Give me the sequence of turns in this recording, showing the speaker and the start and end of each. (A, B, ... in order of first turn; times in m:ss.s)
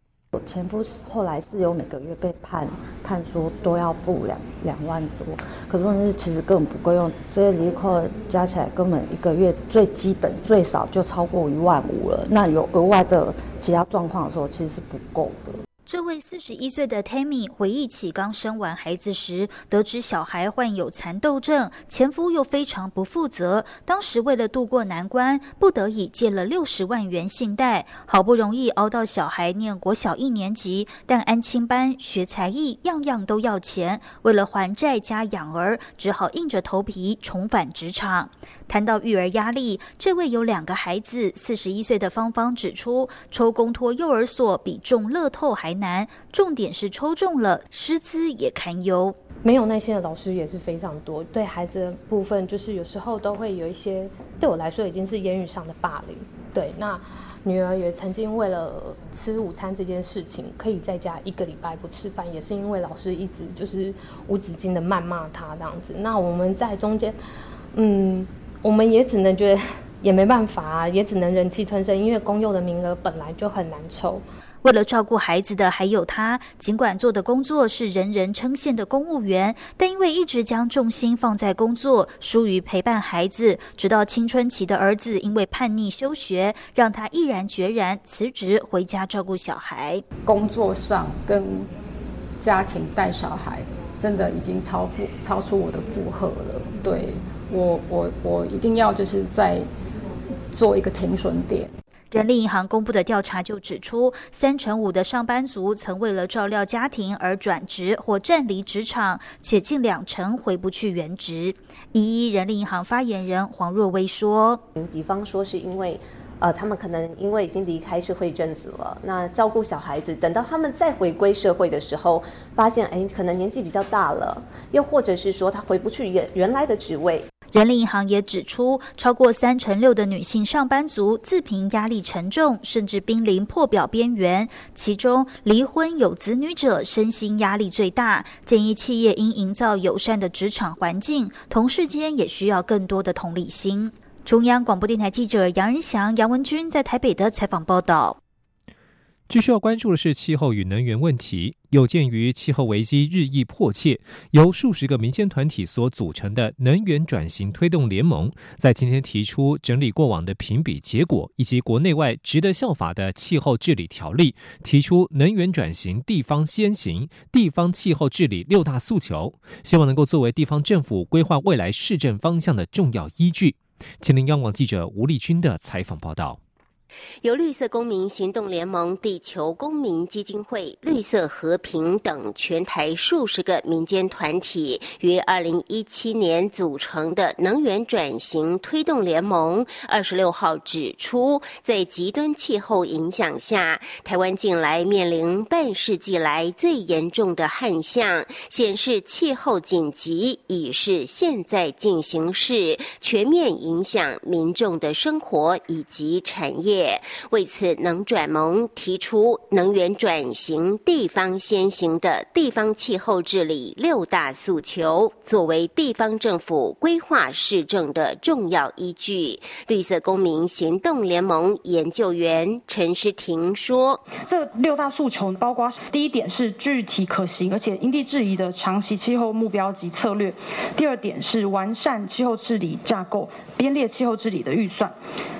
0:00.3-0:15.6 A
0:15.8-0:49.2 B
0:49.4-1:07.2 C
1:07.7-1:14.2 C
1:14.6-1:30.0 B
1:30.2-1:31.7 D
1:32.4-1:39.7 D
1:40.5-1:41.7 D
1:42.1-1:54.6 B
1:54.8-2:07.3 E
2:07.5-2:28.2 B
2:29.3-2:56.4 F
2:57.2-3:44.0 G
3:44.2-3:55.0 H